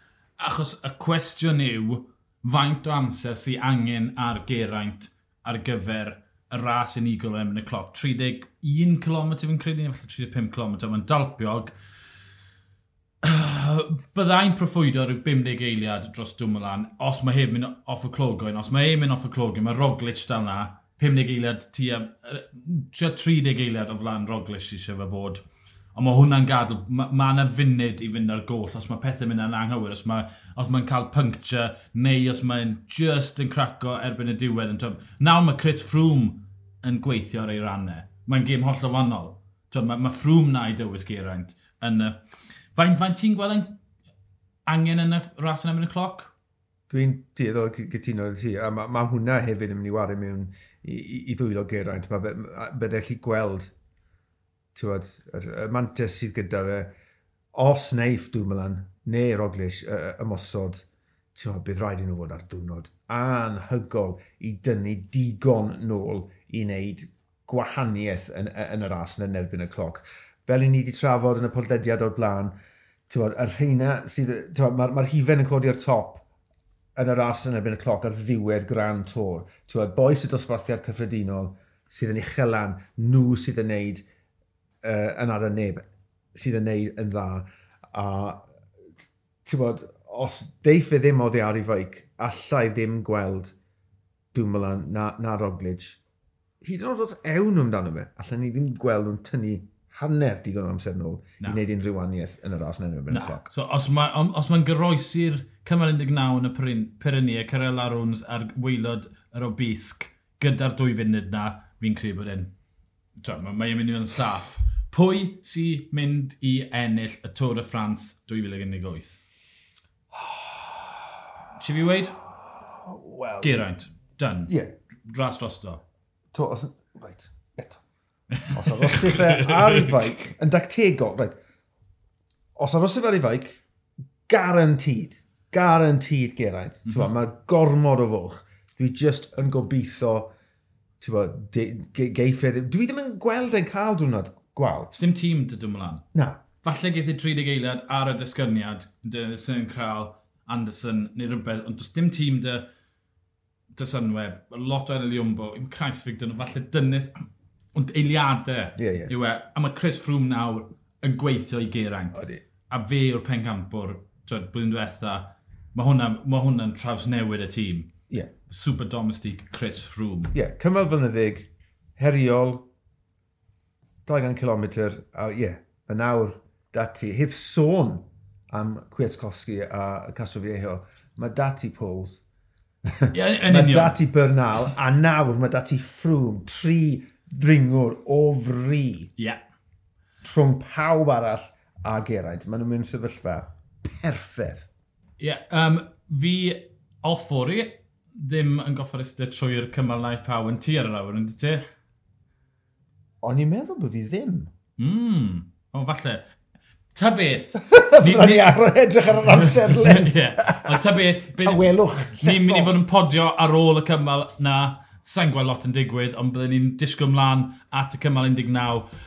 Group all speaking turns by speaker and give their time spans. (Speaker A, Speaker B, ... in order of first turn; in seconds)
Speaker A: 0.4-11.7, 13.2-25.4, 25.9-42.2, 42.8-43.8, 44.7-46.3, 103.1-112.5, 113.2-119.2, 121.6-122.2, 123.4-124.5, 125.0-125.8, 128.3-130.1, 136.9-137.1, 144.9-146.0, 146.6-152.7, 153.8-157.1, 157.8-167.9, 168.5-170.3, 183.1-184.0, 195.2-201.6, 204.8-206.3, 206.9-218.9
Speaker B: 46.9-53.7, 54.8-56.9, 57.5-72.5, 73.1-76.3, 77.0-84.0, 84.8-88.4, 89.5-93.5, 94.3-96.0, 96.6-103.5, 120.1-121.0, 122.7-123.6, 124.5-124.7, 126.3-127.8, 128.5-131.3, 132.6-133.6, 134.3-140.3, 141.0-144.9, 146.1-146.4, 158.8-159.1, 162.2-162.4, 170.3-172.7, 174.1-182.2, 182.9-189.1, 190.2-194.7, 203.2-204.5, 207.6-210.8, 211.3-212.8